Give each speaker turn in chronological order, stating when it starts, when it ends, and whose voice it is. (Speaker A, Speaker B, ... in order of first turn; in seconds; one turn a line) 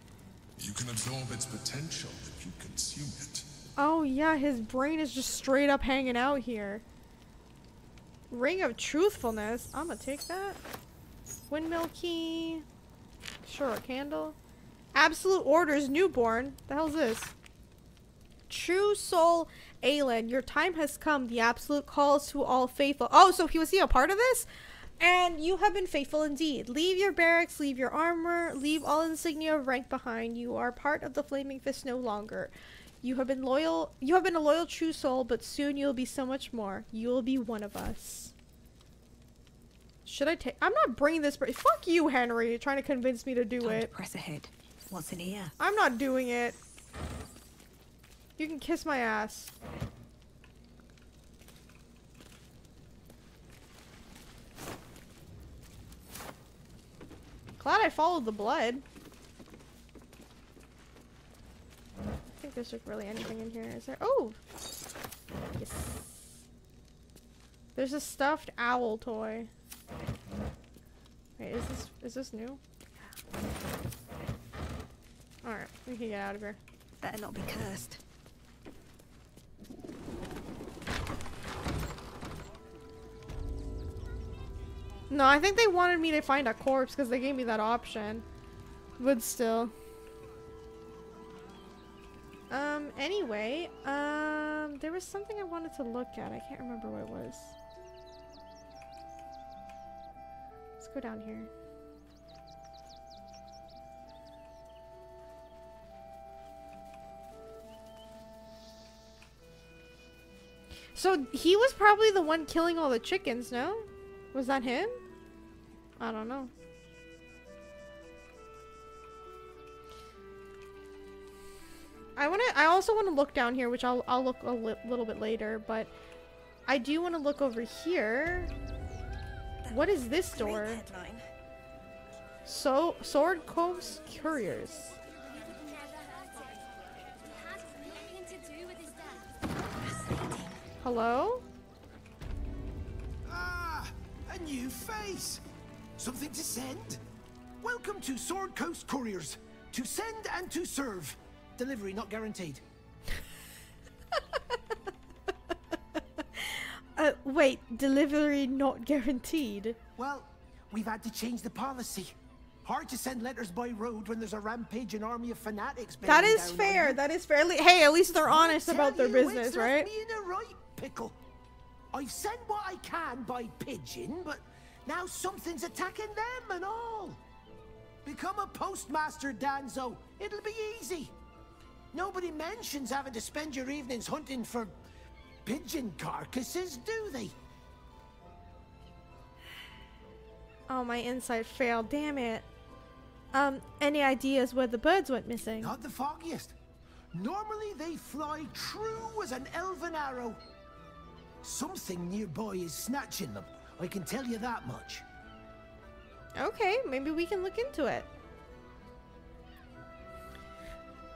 Speaker A: 0.6-3.5
Speaker B: 3.8-6.8
Speaker B: 8.3-10.6
Speaker B: 11.5-12.7
Speaker B: 13.4-14.4
Speaker B: 14.9-17.3
Speaker B: 18.5-24.5
Speaker B: 25.0-38.3
Speaker B: 40.1-43.9
Speaker C: 43.6-45.5
Speaker B: 45.6-46.5
Speaker B: 48.4-49.5
Speaker B: 57.6-58.8
Speaker B: 62.4-64.4
Speaker B: 65.6-66.4
Speaker B: 67.8-69.5
Speaker B: 71.4-73.1
Speaker B: 75.4-76.6
Speaker C: 77.0-78.0
Speaker B: 85.1-88.2
Speaker B: 89.0-89.7
Speaker B: 92.5-97.5
Speaker B: 100.8-101.5
Speaker B: 111.0-115.0
Speaker B: 116.0-116.5
Speaker B: 122.2-125.9
Speaker B: 126.7-128.5
Speaker C: 129.7-131.2
Speaker B: 129.7-130.8
Speaker B: 132.5-134.9
Speaker C: 139.8-140.7
Speaker B: 140.8-141.4
Speaker D: 143.3-145.4
Speaker D: 146.0-147.0
Speaker D: 147.6-152.6
Speaker B: 156.4-159.8
Speaker D: 160.0-167.0
Speaker B: 166.1-169.9
Speaker D: 168.2-171.2
Speaker D: 171.9-177.2
Speaker D: 178.1-181.1
Speaker D: 181.9-184.7
Speaker D: 185.4-187.3
Speaker B: 190.7-192.5
Speaker B: 193.3-195.7
Speaker D: 195.6-196.5
Speaker D: 197.1-200.4
Speaker D: 201.4-205.0
Speaker B: 206.3-208.1